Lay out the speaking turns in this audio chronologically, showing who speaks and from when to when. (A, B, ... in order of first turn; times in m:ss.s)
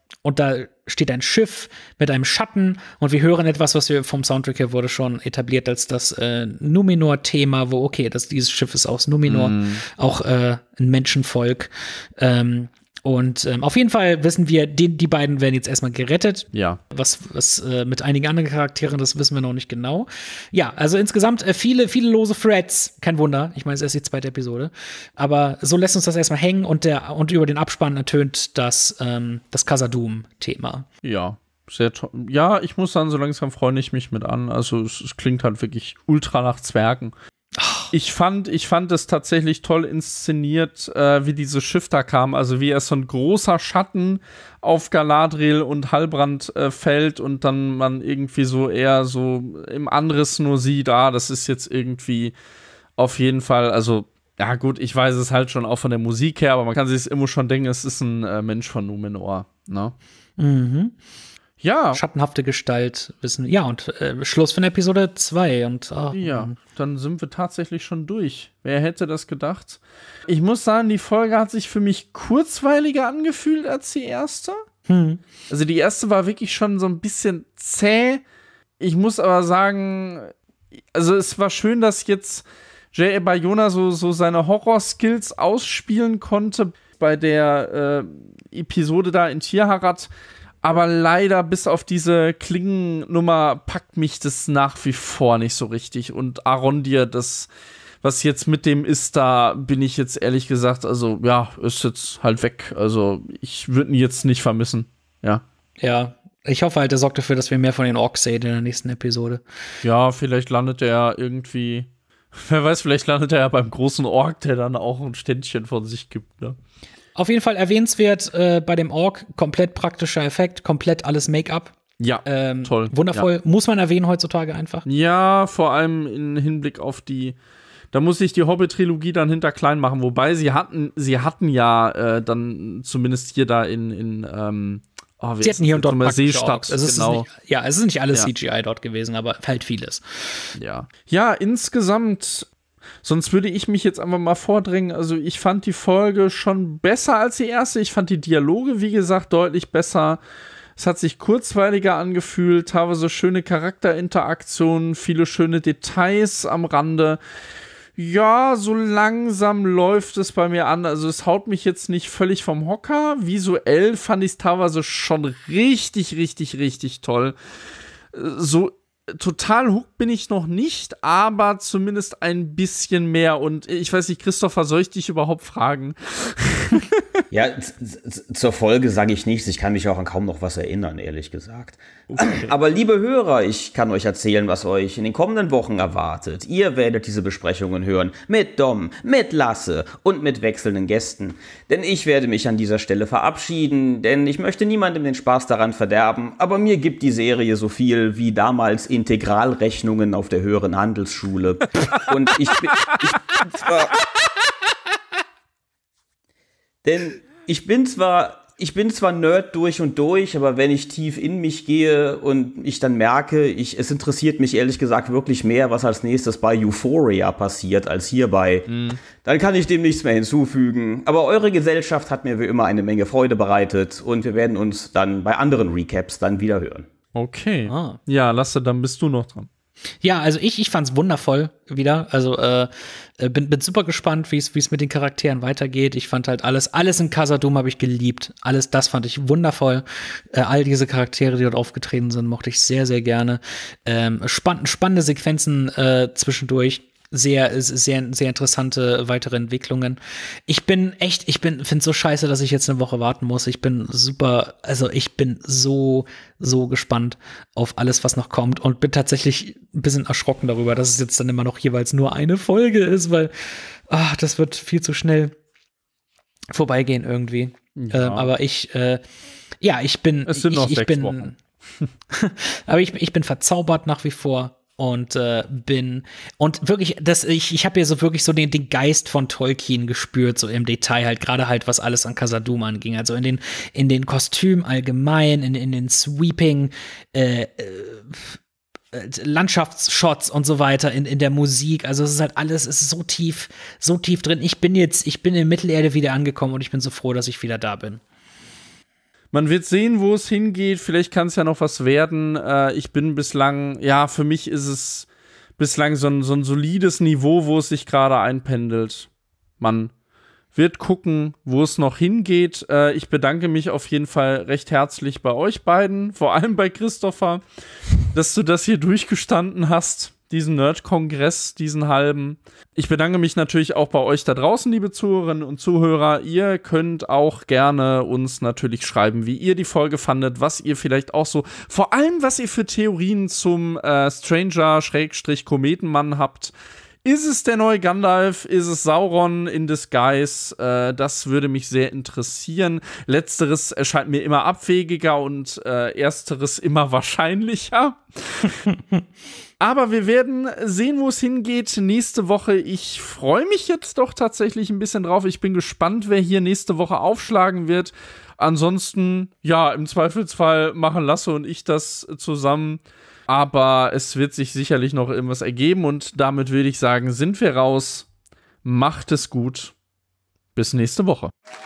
0:00.2-0:30.8 A
0:09.3-0:09.8 B
0:16.5-0:16.8 B
0:31.0-0:37.1 B
0:37.6-0:37.9 A
0:37.9-0:52.3 B
0:53.0-0:59.9 B
1:00.4-1:00.9 A
1:01.6-1:02.0 B
1:01.9-1:06.6 A
1:06.1-1:14.6 B
1:14.9-1:15.2 A
1:15.5-1:18.2 B
1:18.8-1:20.3 B
1:20.9-1:30.1 B
1:30.6-1:37.5 B
1:38.0-1:45.4 B
1:45.8-1:49.4 A
1:49.8-1:56.6 B
1:57.2-2:04.8 A
2:02.0-2:03.3 B
2:04.8-2:07.4 B
2:07.9-2:17.2 B
2:15.4-2:20.5 A
2:20.6-2:22.5 B
2:23.0-2:30.2 B
2:30.8-2:37.2 B
2:38.0-2:47.3 B
2:48.1-2:57.2 B
2:57.3-3:24.0 C
3:02.1-3:02.5 B
3:26.8-3:46.9 C
3:38.7-3:39.0 B
3:47.1-3:49.5 B
3:47.7-3:48.0 A
3:50.0-4:25.3 A
4:26.5-4:29.0 A
4:27.8-4:28.3 B
4:29.6-4:31.3 A
4:30.3-4:31.3 B
4:32.1-4:48.4 A
4:48.9-4:58.0 A
4:59.3-5:05.1 B
5:05.6-5:09.1 B
5:09.6-5:09.9 B
5:10.5-5:17.4 B
5:18.1-5:36.5 B
5:37.0-5:48.6 B
5:49.6-6:08.1 B
6:08.6-6:09.7 B
6:10.5-6:11.3 B